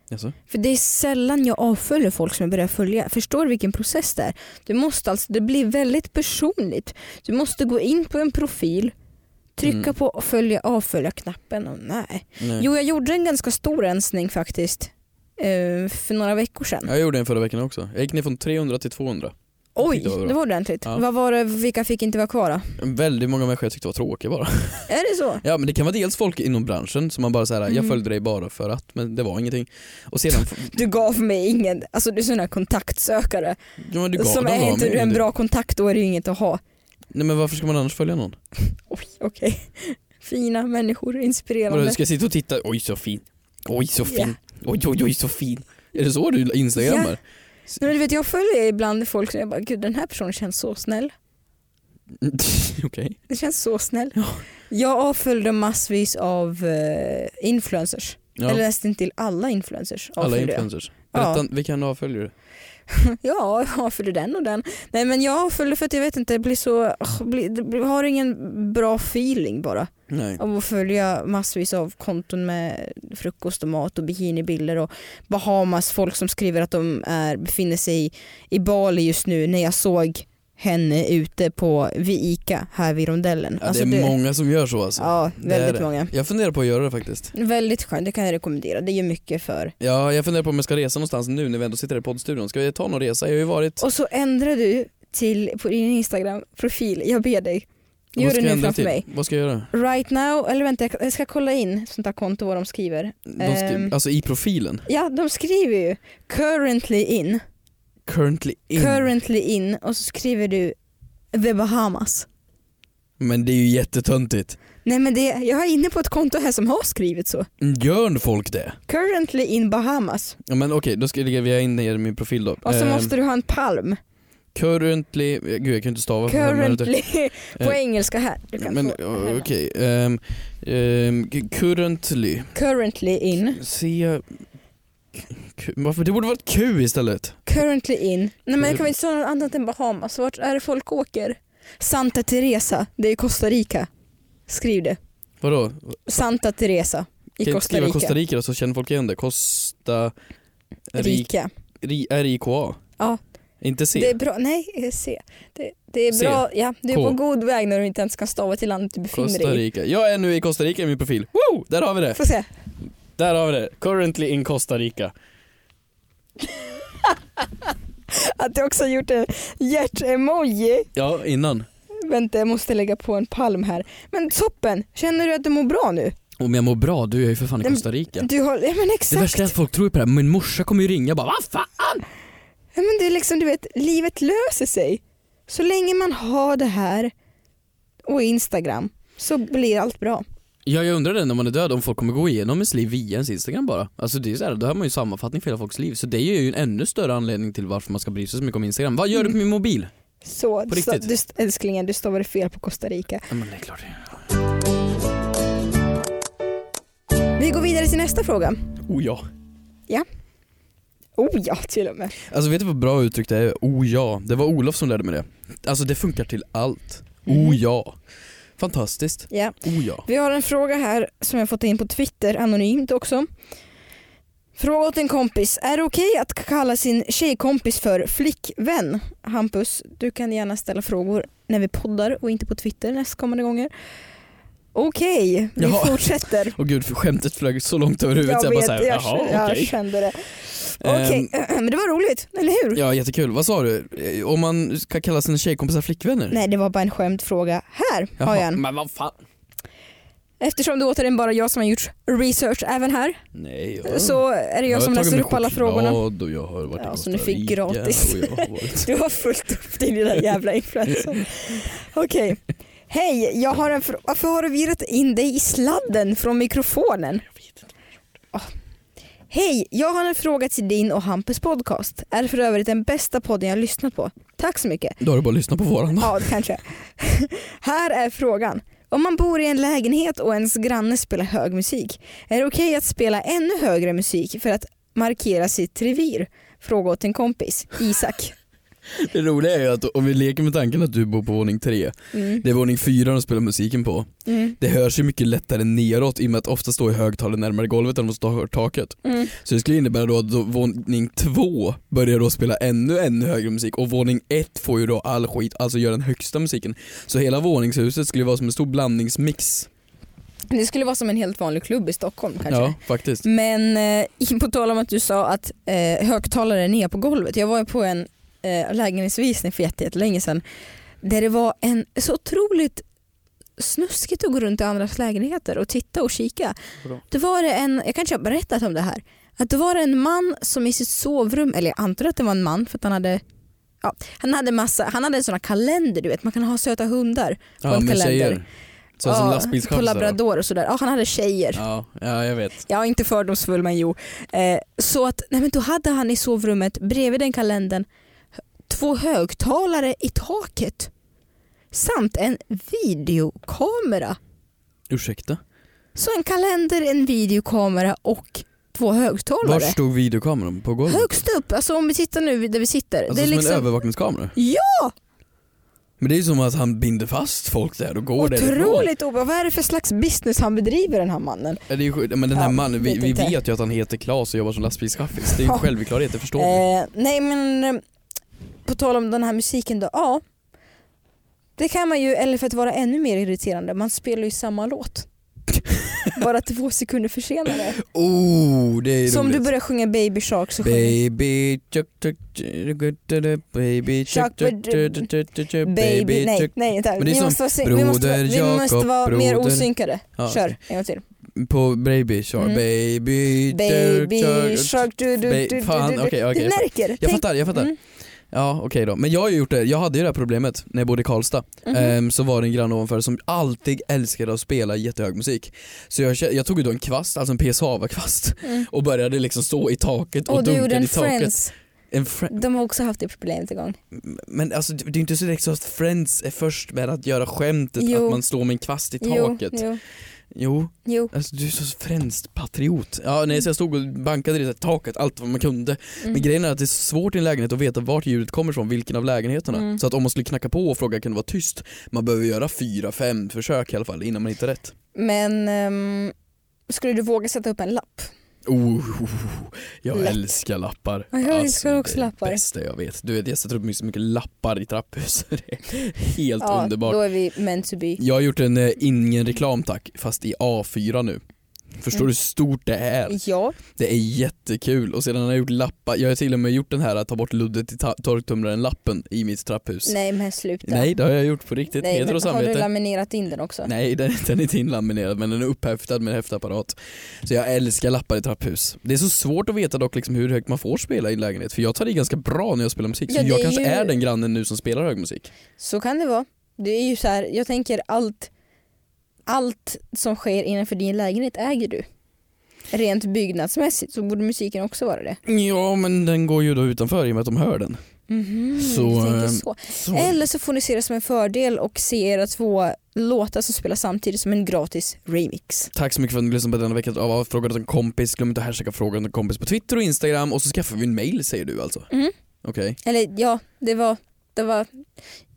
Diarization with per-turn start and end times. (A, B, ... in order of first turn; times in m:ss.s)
0:00.1-0:00.4 A
0:00.5-0:08.9 B
0:09.6-0:16.9 B
0:09.6-0:09.9 A
0:12.4-0:12.7 A
0:16.8-0:21.0 A
0:19.8-0:22.7 B
0:22.8-0:24.9 A
0:24.9-0:25.4 B
0:25.4-0:30.7 A
0:27.7-0:28.0 B
0:30.5-0:33.6 B
0:33.8-0:35.2 A
0:34.1-0:36.6 B
0:37.1-0:38.4 A
0:38.9-0:42.0 B
0:41.7-0:47.2 A
0:44.1-0:44.3 B
0:46.8-0:47.2 B
0:47.8-0:51.1 B
0:52.1-0:53.2 A
0:53.3-0:54.2 B
0:54.1-0:54.4 A
0:54.7-1:01.4 B
0:58.4-0:58.6 A
1:00.2-1:02.3 A
1:02.9-1:24.2 B
1:10.1-1:10.4 A
1:23.6-1:27.3 A
1:25.0-1:26.1 B
1:27.3-1:29.7 B
1:29.8-1:33.8 A
1:33.8-1:39.0 B
1:38.2-1:39.7 A
1:39.7-1:43.9 B
1:43.3-1:44.8 A
1:44.9-1:47.4 B
1:48.0-1:49.1 A
1:48.7-1:50.8 B
1:51.3-1:52.2 B
1:53.2-1:54.6 A
1:54.8-1:57.5 B
1:57.6-1:58.8 A
1:58.9-2:00.4 B
2:00.4-2:03.1 A
2:02.6-2:04.0 B
2:04.5-2:06.9 A
2:06.3-2:09.5 B
2:08.6-2:12.5 A
2:12.5-2:13.6 B
2:13.5-2:14.2 A
2:15.2-2:17.4 A
2:17.4-2:23.9 B
2:24.5-2:25.0 B
2:25.4-2:26.2 A
2:26.1-2:28.1 B
2:27.4-2:30.1 A
2:30.9-2:31.3 A
2:31.0-2:31.5 B
2:31.8-2:32.8 A
2:33.6-2:34.2 A
2:33.9-2:39.6 B
2:36.1-2:37.2 A
2:39.1-2:42.2 A
2:42.1-2:42.5 B
2:43.2-2:45.1 A
2:48.1-2:50.9 B
2:50.9-2:51.7 A
2:52.0-2:56.1 B
2:56.4-2:58.3 A
2:57.6-2:59.5 B
2:59.1-3:02.0 A
3:02.7-3:07.1 B
3:08.0-3:10.2 B
3:10.6-3:19.9 A
3:20.2-3:23.3 B
3:20.7-3:21.1 A
3:23.3-3:24.2 A
3:27.4-3:28.7 B
3:28.8-3:29.2 A
3:31.2-3:32.1 B
3:32.2-3:38.0 A
3:37.3-3:37.6 B
3:38.6-3:40.0 A
3:39.3-3:43.3 B
3:44.5-3:53.7 B
3:54.7-3:56.6 B
3:55.6-3:59.8 A
3:58.2-4:02.8 B
4:00.8-4:01.3 A
4:02.7-4:06.4 A
4:06.3-4:08.6 B
4:08.2-4:09.2 A
4:10.4-4:13.2 B
4:13.3-4:18.9 A
4:13.8-4:16.0 B
4:16.8-4:27.3 B
4:29.3-4:35.0 B
4:35.0-4:36.3 A
4:36.0-4:48.3 B
4:48.9-5:09.7 A
4:52.1-4:52.4 B
4:54.3-4:54.6 B
4:59.0-4:59.3 B
5:10.5-5:20.4 B
5:12.5-5:13.2 A
5:21.0-5:22.8 B
5:23.6-5:26.6 B
5:27.1-5:33.2 B
5:33.8-5:38.4 B
5:37.6-5:38.4 A
5:39.0-5:40.2 A
5:39.0-5:41.6 B
5:41.5-5:42.6 A
5:42.7-5:47.8 B
5:48.7-5:50.9 B
5:51.7-5:54.2 B
5:54.9-5:55.4 A
5:56.0-5:59.8 B
5:59.4-6:01.2 A
6:00.9-6:03.7 B
6:03.1-6:04.3 A
6:04.3-6:04.9 B
6:06.0-6:08.9 A
6:08.2-6:11.6 B
6:11.7-6:16.6 A
6:12.3-6:13.3 B
6:16.3-6:17.8 B
6:18.6-6:20.2 B
6:21.6-6:25.1 B
6:25.7-6:26.1 A
6:26.1-6:27.8 B
6:27.8-6:29.4 A
6:29.0-6:31.0 B
6:30.6-6:40.5 A
6:34.1-6:41.0 B
6:41.3-6:47.7 A
6:43.5-6:47.8 B
6:48.3-7:01.4 A
6:51.6-6:51.9 B
7:00.3-7:01.5 B
7:01.9-7:02.3 A
7:02.3-7:03.8 B
7:03.9-7:09.7 A
7:07.8-7:08.2 B
7:09.0-7:09.8 B
7:10.3-7:24.7 A
7:10.8-7:11.1 B
7:19.5-7:19.8 B
7:24.9-7:26.1 B
7:26.7-7:28.1 B
7:28.4-7:37.0 A
7:29.9-7:30.3 B
7:31.1-7:32.4 B
7:36.4-7:38.0 B
7:38.0-7:41.2 A
7:41.8-7:43.2 A
7:43.1-7:43.6 B
7:43.7-7:50.0 A
7:49.8-7:50.9 B
7:50.6-7:52.7 A
7:51.8-7:53.7 B
7:53.6-8:05.3 A
8:03.1-8:03.9 B
8:05.6-8:08.3 B
8:09.3-8:11.8 B
8:12.7-8:15.2 B
8:15.2-8:17.8 A
8:18.1-8:25.7 B
8:18.6-8:20.2 A
8:25.7-8:31.9 A
8:32.4-8:32.8 A
8:32.8-8:34.7 B